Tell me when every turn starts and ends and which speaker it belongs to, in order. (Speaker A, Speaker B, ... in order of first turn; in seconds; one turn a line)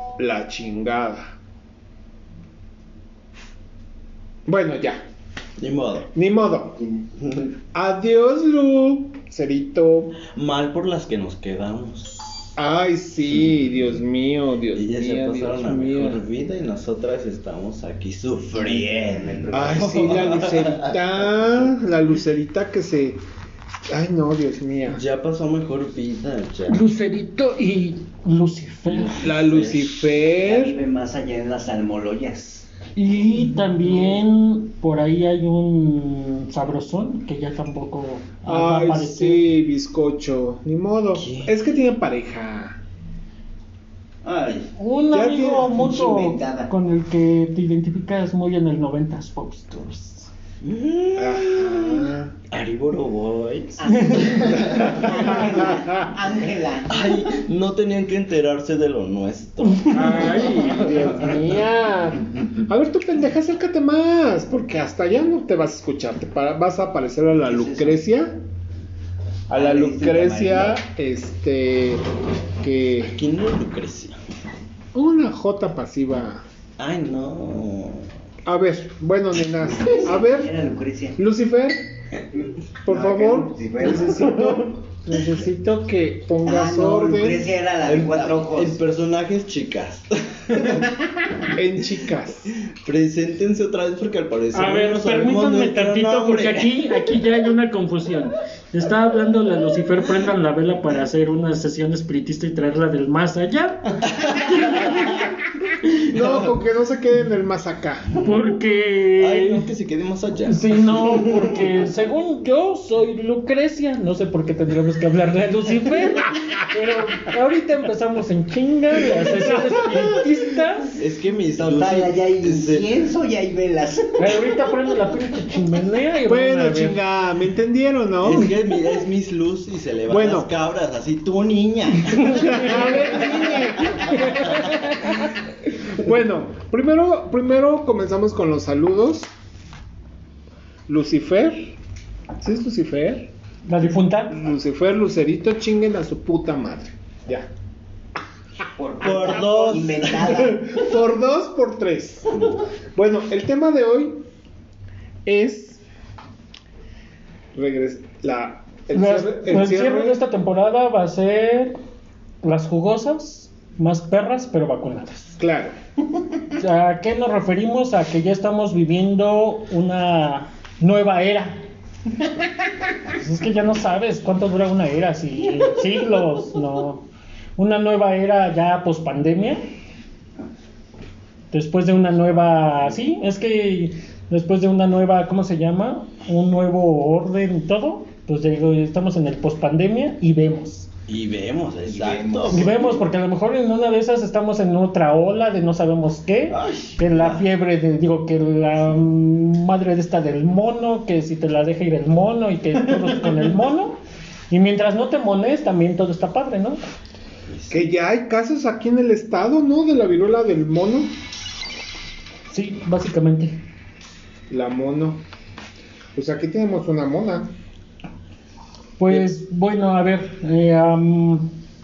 Speaker A: 0.2-1.3
Speaker A: 4.5-5.0
Speaker B: 5.6-6.1
Speaker A: 6.1-6.8
Speaker B: 7.2-7.5
Speaker A: 7.7-10.2
Speaker B: 10.2-12.5
Speaker A: 12.6-16.2
Speaker B: 14.8-20.9
Speaker C: 18.5-20.3
Speaker A: 19.5-23.2
Speaker A: 23.9-25.0
Speaker B: 24.9-26.8
Speaker D: 26.7-29.3
Speaker B: 28.9-30.1
Speaker A: 29.2-30.8
Speaker C: 30.4-32.7
Speaker D: 33.0-39.4
Speaker A: 38.5-42.8
Speaker B: 41.2-41.5
Speaker C: 44.2-44.7
Speaker D: 44.8-50.3
Speaker A: 45.1-45.8
Speaker C: 45.7-46.7
Speaker B: 50.6-53.8
Speaker A: 51.2-52.3
Speaker C: 53.8-57.0
Speaker D: 54.1-55.4
Speaker B: 54.3-55.2
Speaker A: 54.6-55.9
Speaker B: 56.9-61.3
Speaker A: 59.9-68.3
Speaker C: 67.4-68.0
Speaker A: 69.5-72.0
Speaker C: 69.5-70.8
Speaker A: 72.6-73.2
Speaker B: 73.1-74.2
Speaker A: 74.9-76.4
Speaker B: 76.8-78.1
Speaker A: 78.5-80.5
Speaker C: 79.8-81.2
Speaker A: 81.2-81.8
Speaker C: 82.3-84.3
Speaker A: 82.8-87.5
Speaker C: 86.5-88.8
Speaker B: 87.8-90.9
Speaker C: 90.5-90.8
Speaker A: 91.5-92.6
Speaker B: 92.5-97.1
Speaker D: 94.5-105.3
Speaker B: 104.5-105.1
Speaker A: 106.0-108.1
Speaker D: 108.2-109.7
Speaker B: 109.2-111.5
Speaker D: 110.5-121.0
Speaker A: 119.3-120.3
Speaker B: 121.0-122.9
Speaker C: 121.6-124.6
Speaker D: 124.2-127.0
Speaker A: 126.3-128.5
Speaker B: 128.2-133.4
Speaker A: 130.1-130.5
Speaker A: 132.3-134.6
Speaker D: 134.1-135.3
Speaker A: 135.7-139.3
Speaker A: 140.9-141.8
Speaker A: 142.4-143.3
Speaker D: 143.7-144.4
Speaker A: 144.3-147.5
Speaker C: 148.8-150.6
Speaker B: 149.0-150.7
Speaker A: 150.4-152.3
Speaker A: 152.9-154.2
Speaker A: 155.2-155.8
Speaker A: 157.6-160.2
Speaker D: 158.9-161.8
Speaker D: 162.4-165.4
Speaker A: 165.4-165.7
Speaker D: 166.5-171.6
Speaker D: 173.1-177.1
Speaker D: 177.6-179.6
Speaker D: 181.5-190.9
Speaker B: 191.1-193.1
Speaker C: 191.9-192.7
Speaker D: 192.5-206.8
Speaker B: 196.5-197.4
Speaker B: 207.5-207.9
Speaker A: 207.7-211.1
Speaker D: 212.5-213.6
Speaker A: 214.5-215.2
Speaker A: 216.2-217.5
Speaker D: 219.0-221.5